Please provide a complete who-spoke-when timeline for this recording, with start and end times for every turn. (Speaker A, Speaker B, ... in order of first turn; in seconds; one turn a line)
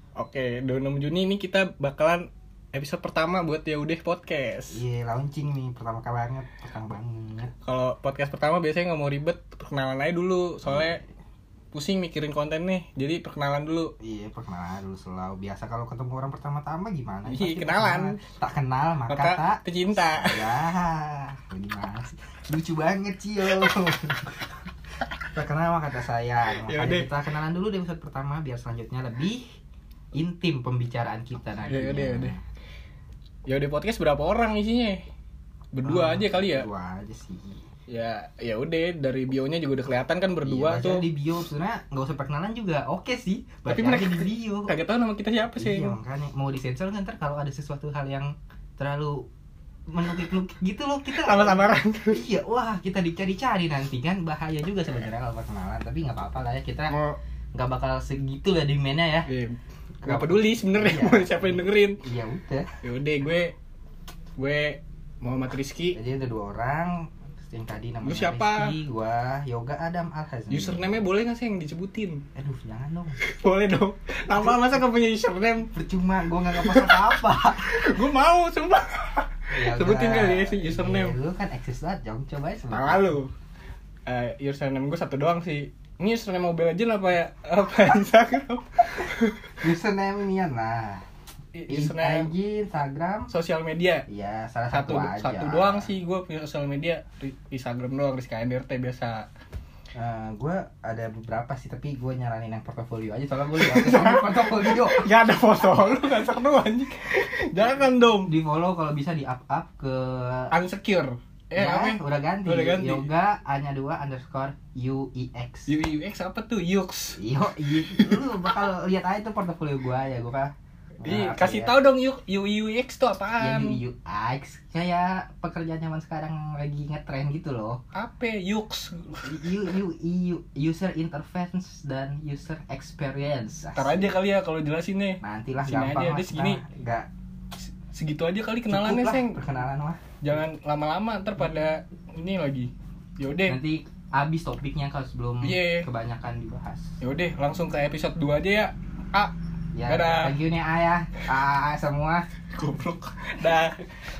Speaker A: 0.1-4.8
Speaker B: 4.7-7.5
Speaker A: 7.6-11.0
Speaker B: 10.6-11.0
Speaker A: 11.7-13.9
Speaker B: 14.0-24.6
Speaker A: 17.2-18.2
Speaker A: 19.1-20.5
Speaker B: 25.3-29.4
Speaker A: 26.6-27.1
Speaker B: 30.1-32.4
Speaker A: 31.6-32.3
Speaker A: 33.5-35.0
Speaker A: 35.7-36.7
Speaker B: 35.8-37.7
Speaker A: 37.9-41.0
Speaker B: 40.4-44.7
Speaker A: 43.7-46.0
Speaker B: 45.5-49.2
Speaker B: 49.9-57.0
Speaker A: 51.1-52.2
Speaker A: 56.9-57.2
Speaker B: 57.5-59.3
Speaker A: 59.3-62.0
Speaker B: 60.0-62.7
Speaker A: 62.8-63.5
Speaker A: 64.4-66.0
Speaker B: 65.9-71.0
Speaker A: 68.0-68.8
Speaker A: 70.5-72.2
Speaker B: 72.3-73.2
Speaker A: 73.2-75.7
Speaker B: 75.7-77.8
Speaker A: 76.5-81.2
Speaker B: 79.5-83.1
Speaker A: 82.7-83.3
Speaker A: 84.0-89.5
Speaker B: 89.6-91.0
Speaker A: 91.5-92.3
Speaker B: 91.7-93.3
Speaker A: 93.3-94.0
Speaker B: 94.1-95.9
Speaker A: 94.7-99.3
Speaker B: 99.9-105.1
Speaker A: 103.6-108.3
Speaker B: 108.2-110.5
Speaker A: 110.5-113.1
Speaker B: 111.5-115.7
Speaker A: 115.7-117.2
Speaker B: 117.2-121.7
Speaker A: 117.8-118.4
Speaker A: 121.0-123.8
Speaker B: 123.4-127.8
Speaker A: 127.9-129.6
Speaker B: 129.2-134.0
Speaker A: 133.7-136.6
Speaker B: 135.2-137.1
Speaker A: 137.8-139.4
Speaker B: 138.7-140.1
Speaker A: 140.2-143.6
Speaker B: 143.5-147.0
Speaker A: 145.4-145.9
Speaker A: 147.0-149.3
Speaker B: 149.7-152.3
Speaker A: 149.8-150.3
Speaker A: 152.5-153.9